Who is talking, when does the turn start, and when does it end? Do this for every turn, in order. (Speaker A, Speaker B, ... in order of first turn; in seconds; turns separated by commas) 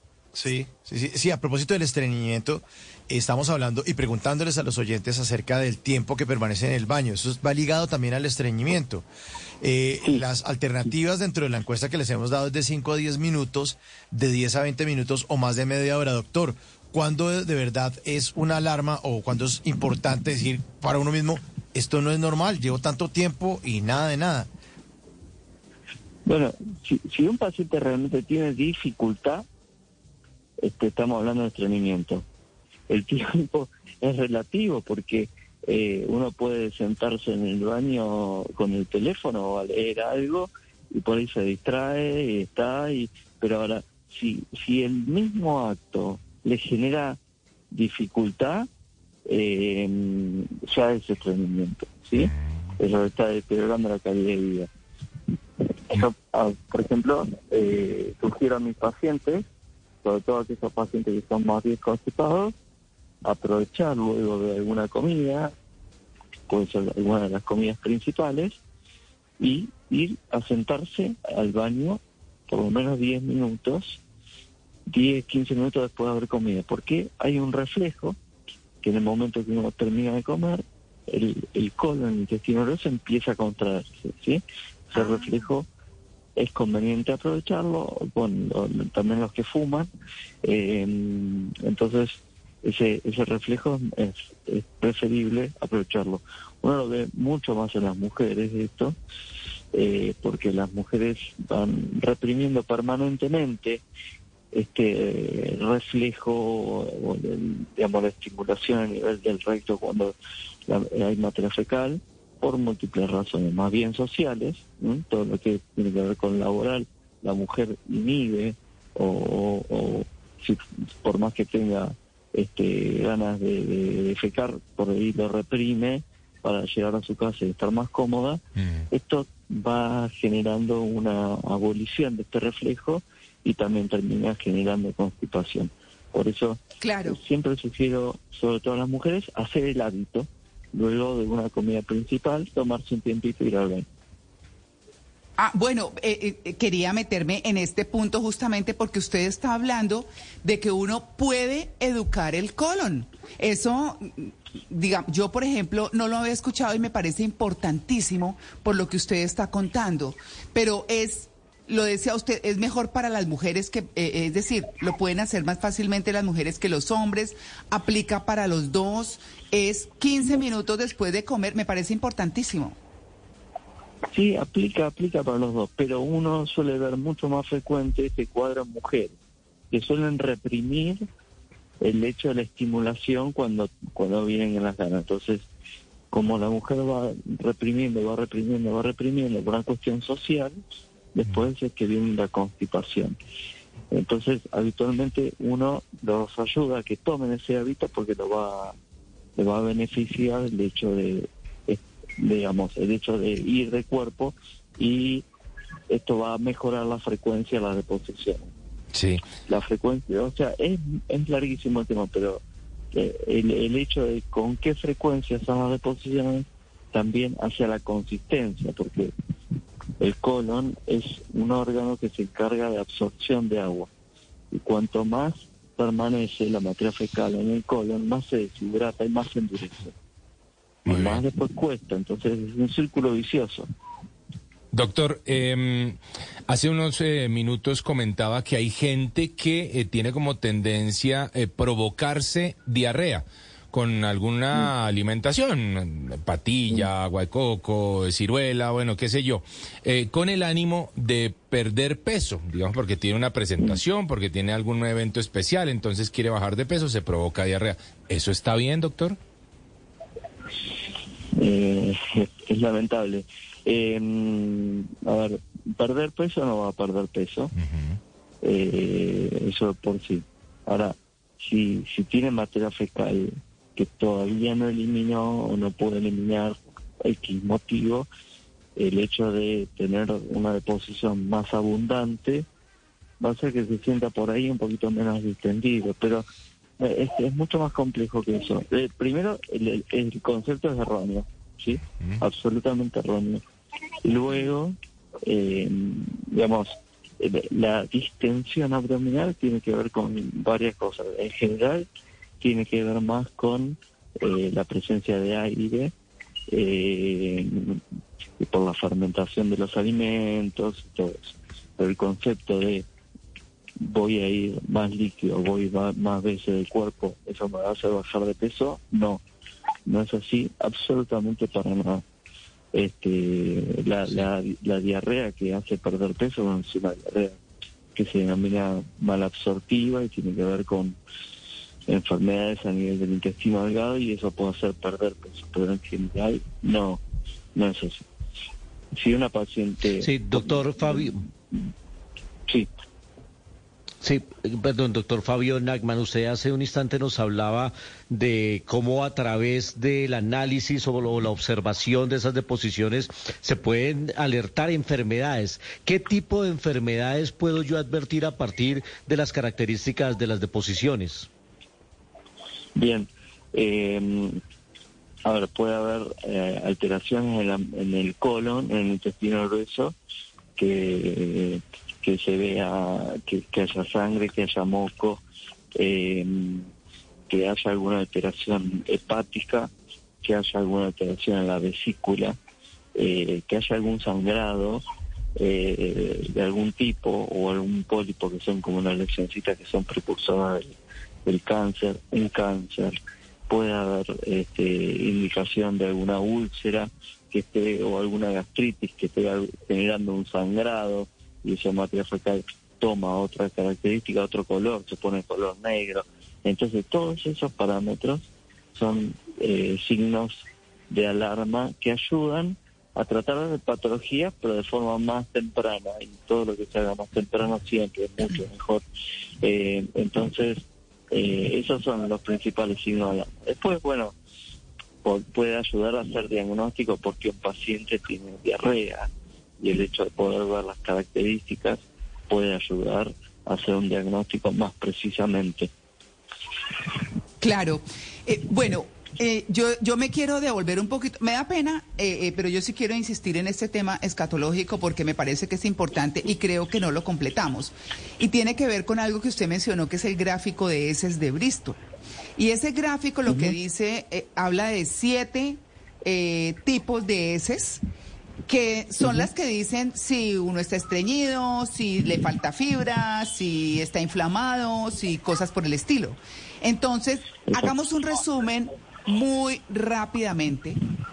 Speaker A: 0.3-9.0, Speaker A: 9.6-24.5, Speaker B: 26.2-29.4, Speaker B: 30.6-32.2, Speaker B: 32.9-47.2, Speaker B: 47.7-48.7, Speaker B: 49.2-54.7, Speaker B: 55.9-59.4, Speaker B: 60.0-62.5, Speaker B: 63.2-65.5, Speaker B: 66.5-68.6, Speaker B: 69.4-74.0, Speaker B: 74.9-78.2, Speaker B: 78.8-85.7, Speaker C: 84.9-85.4, Speaker B: 86.4-89.9, Speaker B: 90.4-98.9, Speaker B: 99.7-103.8, Speaker B: 104.5-110.1, Speaker B: 110.7-143.8, Speaker C: 136.8-137.2, Speaker C: 145.4-172.8, Speaker B: 174.1-179.1, Speaker B: 179.7-181.0, Speaker B: 181.8-185.4, Speaker B: 186.1-190.6, Speaker B: 191.1-193.2, Speaker B: 193.9-198.8, Speaker B: 199.3-205.2, Speaker B: 205.9-208.5, Speaker D: 208.9-209.2, Speaker B: 209.4-212.4, Speaker B: 212.9-219.1, Speaker B: 220.0-223.9, Speaker B: 224.5-229.9, Speaker B: 230.8-233.7, Speaker D: 230.9-231.2, Speaker D: 234.7-259.2, Speaker B: 261.3-267.5, Speaker D: 267.6-268.0, Speaker B: 268.4-278.1, Speaker B: 278.8-282.4, Speaker B: 283.2-286.2, Speaker B: 286.8-293.4, Speaker B: 294.0-301.9, Speaker B: 302.4-305.9, Speaker B: 306.5-307.8, Speaker B: 308.4-312.9, Speaker B: 313.8-319.2, Speaker B: 319.9-322.0, Speaker B: 322.7-327.4, Speaker B: 327.9-331.0, Speaker B: 331.9-337.0, Speaker B: 337.5-338.0, Speaker B: 338.9-341.6, Speaker E: 340.0-341.2, Speaker E: 344.0-361.3, Speaker B: 362.8-364.4, Speaker B: 365.2-369.9, Speaker B: 370.6-375.2, Speaker B: 375.7-376.7, Speaker B: 377.3-379.7, Speaker B: 380.2-382.4, Speaker B: 382.9-384.8, Speaker B: 385.4-392.9, Speaker B: 393.5-418.8, Speaker B: 419.4-424.1, Speaker B: 425.0-435.7, Speaker C: 437.4-451.8, Speaker C: 452.4-457.8, Speaker B: 453.3-453.5, Speaker C: 458.5-470.8, Speaker B: 459.0-459.3, Speaker B: 467.5-467.7